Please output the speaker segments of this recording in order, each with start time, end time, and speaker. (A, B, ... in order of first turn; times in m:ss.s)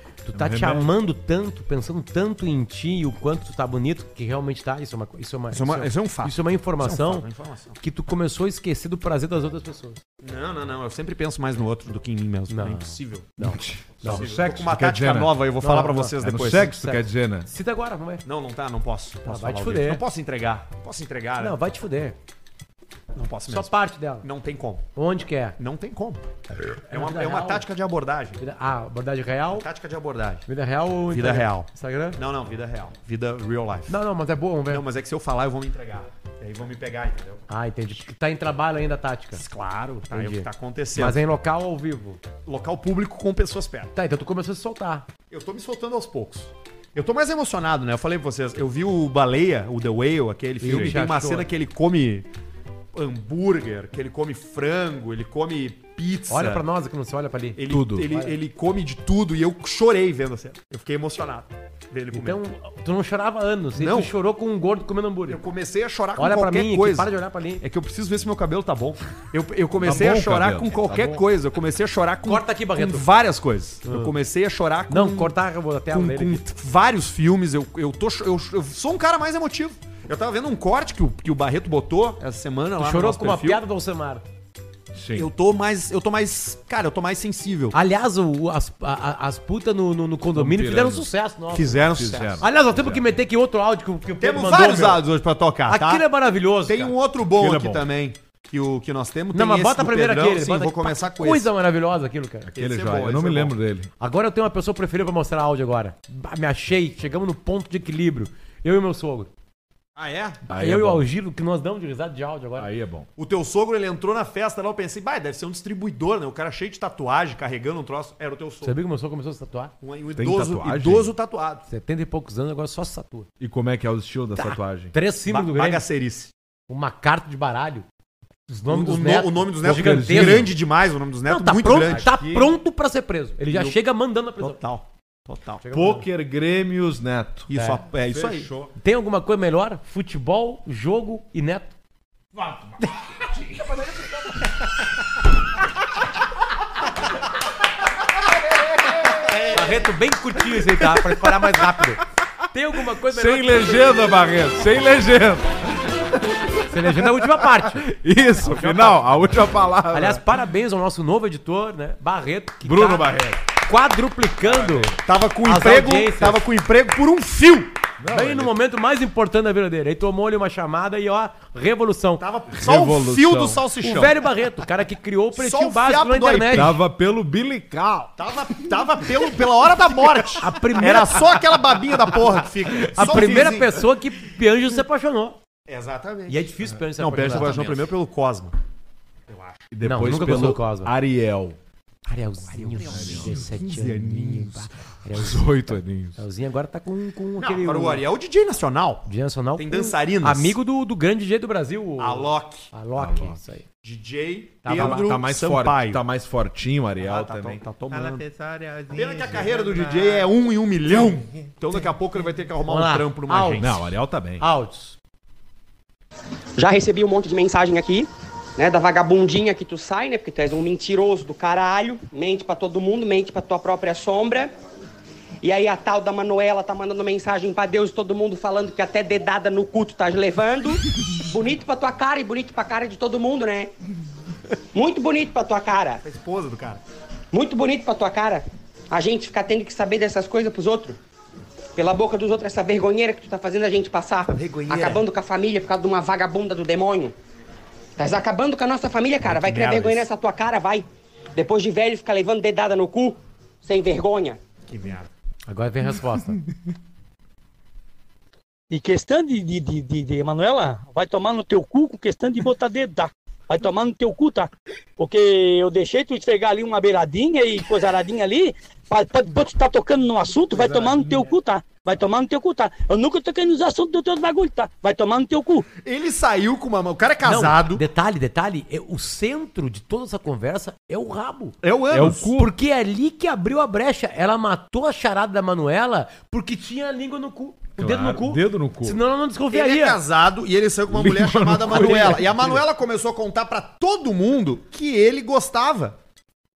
0:00.2-0:07.2 A
0:00.3-0:00.9 B
0:05.5-0:07.8 C
0:07.8-0:10.0 A
0:10.2-0:13.4 C
0:12.5-0:14.2 A
0:13.6-0:15.4 B
0:14.0-0:16.7 C
0:15.6-0:18.2 A
0:16.2-0:17.5 B
0:18.2-0:21.6 C
0:19.2-0:20.0 A
0:21.4-0:22.2 A
0:23.1-0:24.8 C
0:23.5-0:24.2 A
0:24.9-0:25.6 A
0:25.6-0:26.2 C
0:26.9-0:27.6 A
0:26.9-0:28.4 C
0:28.4-0:29.7 A
0:29.6-0:30.4 C
0:30.4-0:32.2 A
0:31.1-0:34.0 C
0:33.9-0:34.8 A
0:34.7-0:37.4 C
0:37.5-0:39.4 A
0:39.3-0:41.2 C
0:40.1-0:42.2 A
0:42.4-0:43.9 C
0:43.9-0:45.1 A
0:45.3-0:52.2 C
0:50.6-0:51.5 A
0:50.6-0:51.0 B
0:52.9-0:56.6 C
0:56.3-0:58.3 A
0:57.6-1:02.4 C
0:57.7-0:58.1 B
1:02.1-1:05.4 A
1:03.8-1:04.1 C
1:05.3-1:15.4 C
1:06.2-1:07.6 A
1:09.8-1:11.2 B
1:12.2-1:13.1 A
1:13.8-1:14.1 A
1:14.9-1:16.4 A
1:15.9-1:23.6 C
1:22.8-1:24.2 A
1:24.9-1:25.3 B
1:25.1-1:27.8 C
1:27.7-1:35.0 A
1:30.3-1:31.1 B
1:31.5-1:32.4 C
1:31.9-1:33.0 B
1:34.2-1:36.0 C
1:35.7-1:36.9 A
1:36.6-1:41.5 C
1:37.3-1:37.9 B
1:39.3-1:42.5 A
1:42.4-1:43.9 B
1:42.6-1:43.5 C
1:44.0-1:49.3 A
1:50.0-1:50.4 C
1:50.5-1:52.7 A
1:50.5-1:51.1 B
1:52.6-1:53.1 B
1:53.2-1:58.8 C
1:58.6-1:59.7 A
1:59.8-2:01.6 C
2:00.2-2:01.1 B
2:01.7-2:03.3 A
2:03.4-2:04.9 B
2:04.4-2:05.8 A
2:05.3-2:06.3 C
2:06.7-2:07.8 A
2:08.5-2:10.5 A
2:08.6-2:12.1 C
2:09.6-2:10.5 B
2:11.3-2:14.6 A
2:11.8-2:12.5 B
2:13.5-2:13.8 C
2:14.4-2:15.6 C
2:15.6-2:16.1 A
2:15.7-2:17.5 B
2:17.5-2:18.5 C
2:17.5-2:17.8 A
2:18.0-2:18.7 B
2:18.7-2:21.7 A
2:22.4-2:22.7 C
2:29.2-2:29.7 C
2:29.3-2:34.1 A
2:30.6-2:32.0 B
2:33.1-2:36.0 B
2:36.7-2:39.1 A
2:36.7-2:40.2 B
2:39.9-2:46.4 A
2:42.6-2:43.4 B
2:44.4-2:45.0 B
2:45.0-2:47.7 C
2:48.0-2:48.5 B
2:48.1-2:52.2 A
2:52.2-2:54.2 C
2:52.5-2:53.6 B
2:53.8-2:56.8 A
2:55.3-2:56.8 C
2:56.5-2:58.3 B
2:58.2-3:03.8 C
3:00.4-3:01.3 A
3:02.9-3:05.4 A
3:02.9-3:03.5 B
3:05.7-3:06.5 C
3:06.3-3:07.9 A
3:07.0-3:08.5 C
3:09.3-3:09.5 C
3:09.7-3:11.6 B
3:09.8-3:10.9 A
3:12.0-3:18.0 A
3:12.5-3:14.7 C
3:12.8-3:13.5 B
3:15.1-3:16.2 B
3:17.4-3:20.6 C
3:19.0-3:23.6 A
3:22.0-3:22.7 C
3:23.0-3:23.4 B
3:23.8-3:26.0 C
3:24.6-3:25.0 A
3:24.7-3:30.2 B
3:27.0-3:28.3 C
3:28.9-3:33.8 C
3:32.6-3:33.7 A
3:33.6-3:34.4 B
3:34.4-3:34.9 A
3:36.6-3:44.5 D
3:45.4-3:53.7 D
3:54.7-3:56.0 D
3:56.0-3:56.8 C
3:57.3-4:01.0 D
4:01.8-4:07.1 D
4:04.3-4:05.0 C
4:08.0-4:14.4 D
4:09.3-4:10.0 C
4:14.7-4:15.1 C
4:15.5-4:16.4 A
4:18.7-4:35.7 E
4:30.6-4:31.2 B
4:35.8-4:37.8 C
4:37.2-4:41.6 A
4:41.6-4:42.3 C
4:41.9-4:42.5 B
4:42.3-4:50.0 A
4:47.8-4:49.0 B
4:49.5-4:56.0 C
4:50.9-4:52.5 B
4:51.6-4:52.6 A